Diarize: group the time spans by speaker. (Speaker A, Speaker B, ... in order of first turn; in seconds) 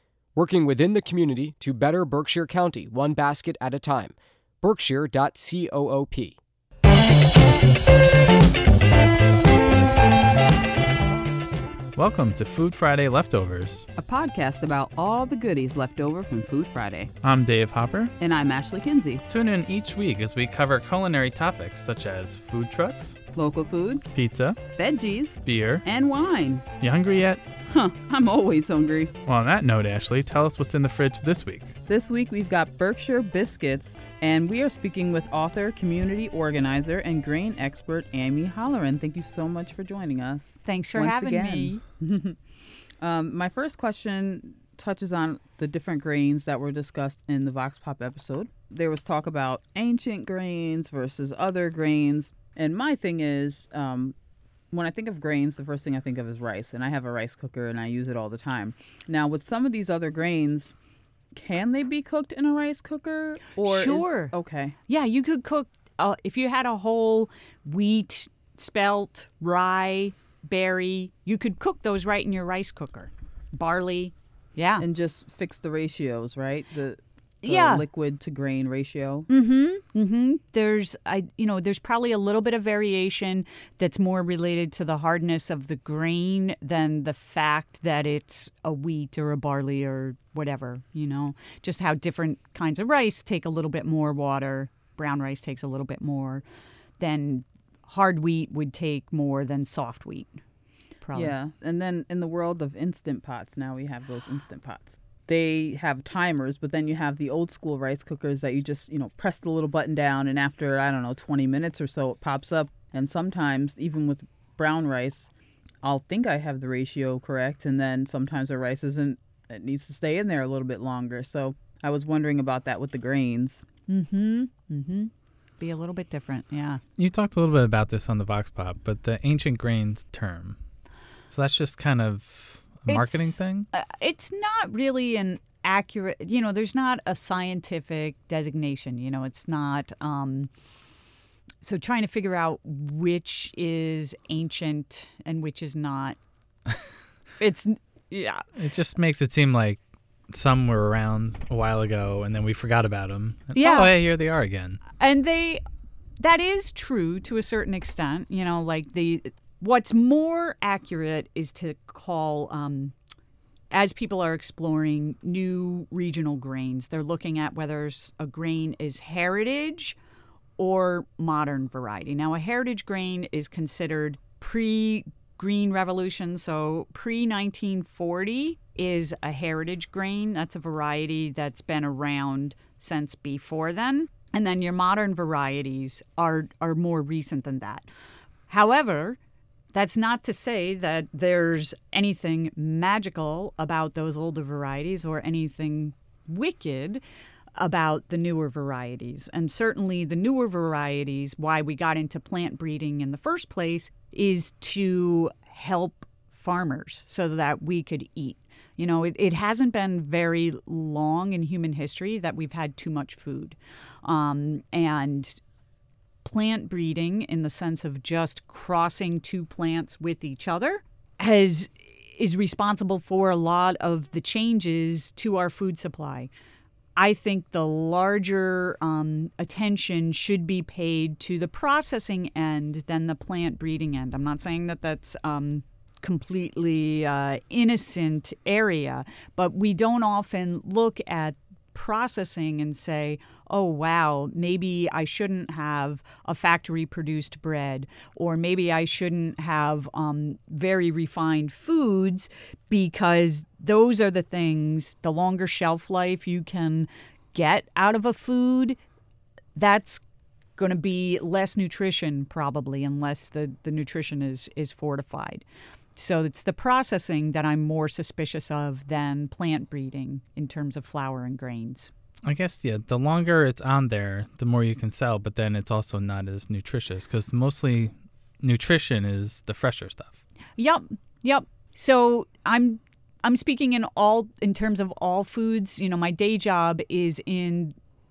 Speaker A: 0.3-6.4
Speaker B: 11.9-13.8, 17.2-18.1, 19.3-23.2, 24.1-24.6, 25.4-25.8, 26.8-27.4, 29.2-31.7, 127.0-130.6, 131.3-133.7, 148.6-154.8, 272.2-280.2
Speaker C: 14.0-17.1, 18.2-19.2, 23.3-24.0, 24.7-26.6, 27.7-29.1, 31.9-42.4, 43.0-54.1, 54.7-60.8, 61.3-64.8, 74.8-79.3, 101.1-115.3, 115.8-123.6
Speaker D: 40.6-41.8, 63.5-64.3, 64.9-74.8, 77.4-77.8, 79.3-96.4, 97.0-100.4, 101.0-101.3, 123.9-126.8, 132.9-140.5, 141.6-146.2, 147.4-148.5, 153.6-153.9, 155.0-155.6, 156.2-162.9, 163.7-170.0, 170.6-187.9, 188.5-189.2, 189.7-197.0, 197.6-215.4, 216.2-226.3, 227.0-258.8, 259.5-260.0, 260.6-271.9, 280.6-287.7